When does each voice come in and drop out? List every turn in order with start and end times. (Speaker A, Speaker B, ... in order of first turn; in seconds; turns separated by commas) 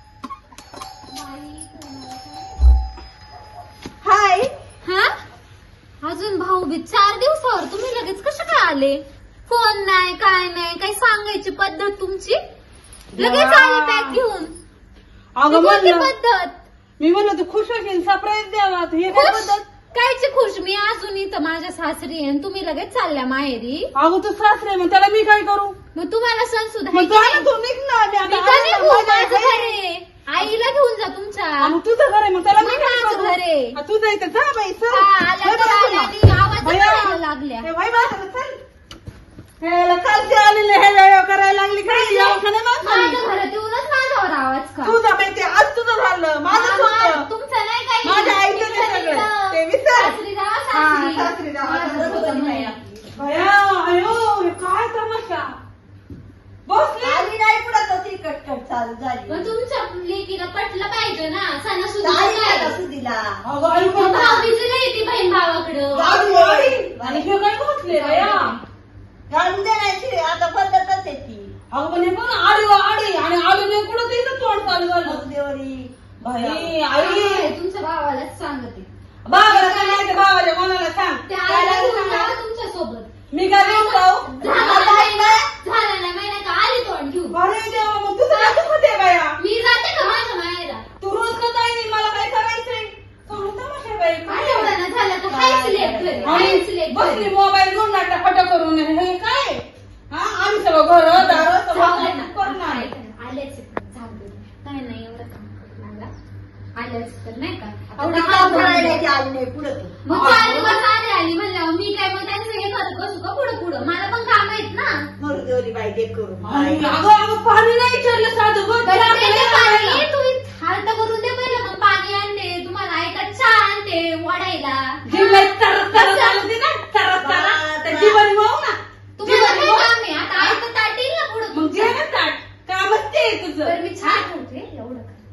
Speaker A: 1.1-2.6, Speaker B: 4.0-4.5, Speaker A: 4.8-5.1, Speaker A: 6.0-12.4, Speaker B: 13.1-14.2, Speaker A: 13.2-14.5, Speaker B: 15.3-16.1, Speaker A: 15.5-16.6, Speaker B: 17.0-19.6, Speaker A: 19.1-23.9, Speaker B: 23.9-25.8, Speaker A: 25.9-27.5, Speaker B: 26.9-29.6, Speaker A: 28.3-31.7, Speaker B: 31.6-38.6, Speaker A: 32.5-33.8, Speaker A: 34.9-37.7, Speaker B: 39.6-43.2, Speaker A: 41.8-45.0, Speaker B: 44.8-47.2, Speaker A: 46.5-52.8, Speaker B: 48.0-50.2, Speaker C: 50.8-53.1, Speaker B: 51.9-52.2, Speaker B: 53.1-55.5, Speaker B: 56.6-57.3, Speaker C: 57.0-59.5, Speaker A: 59.3-62.8, Speaker C: 62.0-63.4, Speaker B: 63.4-64.3, Speaker A: 63.8-66.1, Speaker C: 64.0-64.5, Speaker C: 65.9-67.3, Speaker B: 65.9-68.5, Speaker A: 67.9-68.6, Speaker C: 69.3-71.5, Speaker B: 71.7-75.2, Speaker C: 75.0-76.7, Speaker B: 76.2-77.5, Speaker A: 77.0-80.1, Speaker B: 79.2-82.3, Speaker A: 81.2-87.4, Speaker B: 83.3-84.5, Speaker C: 84.4-85.5, Speaker B: 87.3-89.3, Speaker A: 88.2-88.6, Speaker A: 89.4-90.8, Speaker B: 91.0-94.7, Speaker A: 94.2-97.3, Speaker C: 95.3-96.5, Speaker B: 96.2-102.9, Speaker A: 101.1-106.1, Speaker A: 106.8-109.0, Speaker C: 107.9-110.0, Speaker A: 110.0-115.0, Speaker B: 110.1-110.8, Speaker C: 115.2-117.0, Speaker B: 116.4-120.0, Speaker A: 118.8-126.4, Speaker B: 125.0-130.6, Speaker C: 127.2-128.2, Speaker A: 129.2-132.0, Speaker B: 131.5-134.2, Speaker A: 133.6-135.2